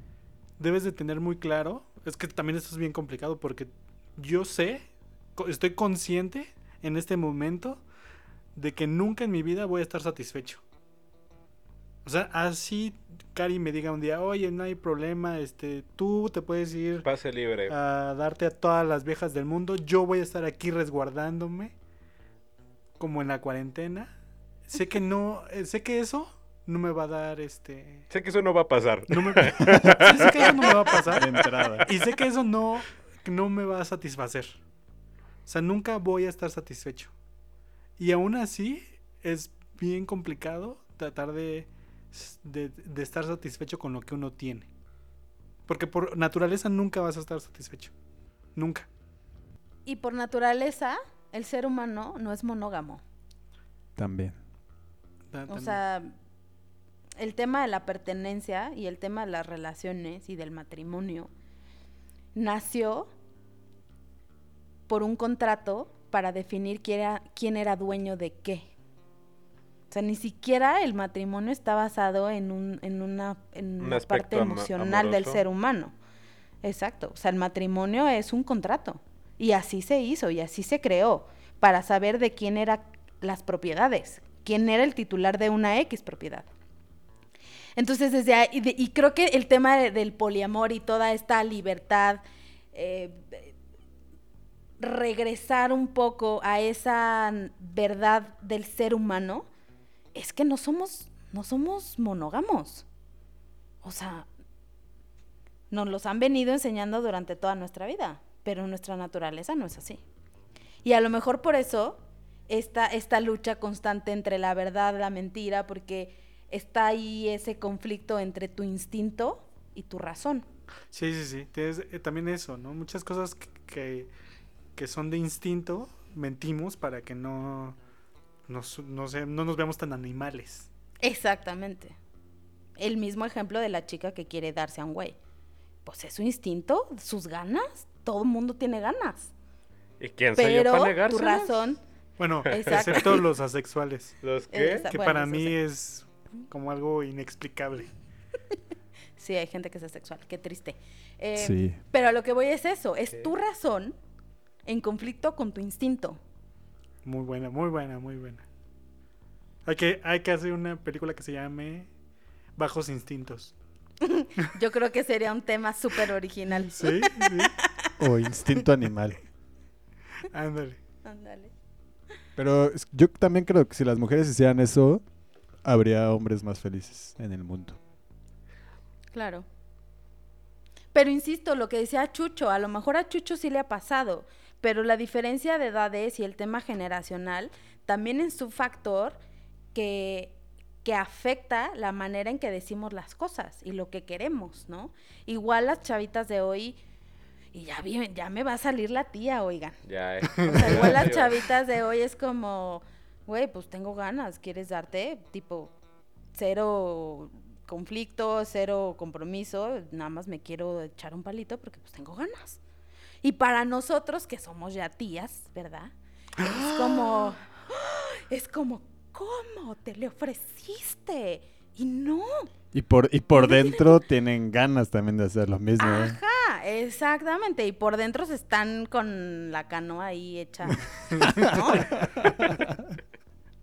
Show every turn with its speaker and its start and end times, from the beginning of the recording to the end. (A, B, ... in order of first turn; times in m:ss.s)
0:00.6-0:07.8 A
0:08.5-0:10.6 A
0:12.0-0:17.1 A
0:17.0-0:17.8 B
0:17.7-0:21.7 A
0:23.0-0:24.1 A
0:24.7-0:28.1 A
0:28.1-0:31.1 B
0:29.1-0:34.6 A
0:31.1-0:31.9 C
0:35.4-0:37.1 A
0:38.0-0:44.7 A
0:45.7-0:47.9 A
0:48.5-0:48.9 A
0:49.8-0:53.0 D
0:54.0-0:54.4 C
0:55.3-0:55.8 A
0:55.5-0:56.1 D
0:57.2-1:01.3 D
1:02.3-1:03.1 D
1:04.9-1:08.7 D
1:09.9-1:15.9 D
1:13.8-1:15.4 B
1:16.6-1:26.5 D
1:27.8-1:32.2 D
1:32.7-1:33.5 D
1:34.8-1:39.5 D
1:40.1-1:42.8 D
1:43.8-1:44.3 D
1:45.7-1:50.0 D
1:50.8-2:00.4 D
2:00.9-2:04.1 A
2:04.8-2:07.8 A
2:08.5-2:10.7 A
2:11.0-2:12.0 D
2:12.8-2:15.2 D
2:15.8-2:19.3 D
2:20.0-2:21.6 B
2:20.4-2:21.8 D
2:22.2-2:24.2 A
2:22.5-2:23.2 D
2:22.7-2:23.2 B
2:24.2-2:24.9 B
2:24.5-2:25.6 D
2:24.9-2:27.9 A
2:29.2-2:33.9 D
2:31.4-2:31.8 C
2:34.6-2:36.2 D
2:37.0-2:38.4 A
2:39.6-2:41.9 A
2:42.6-2:43.5 A
2:44.0-2:47.9 D
2:46.7-2:47.5 A
2:48.0-2:49.2 C
2:50.3-2:50.8 A
2:51.0-2:51.5 D
2:52.4-2:55.0 C
2:55.6-2:57.8 C
2:59.1-2:59.4 D
3:00.9-3:09.2 D
3:09.7-3:16.8 D
3:17.5-3:19.8 D
3:19.8-3:21.4 B
3:20.4-3:25.7 D
3:20.4-3:21.0 A
3:26.3-3:32.6 D
3:33.2-3:42.5 D
3:36.4-3:37.3 A
3:42.7-3:46.2 C
3:43.3-3:44.0 D
3:45.8-3:52.1 D
3:51.5-3:52.8 C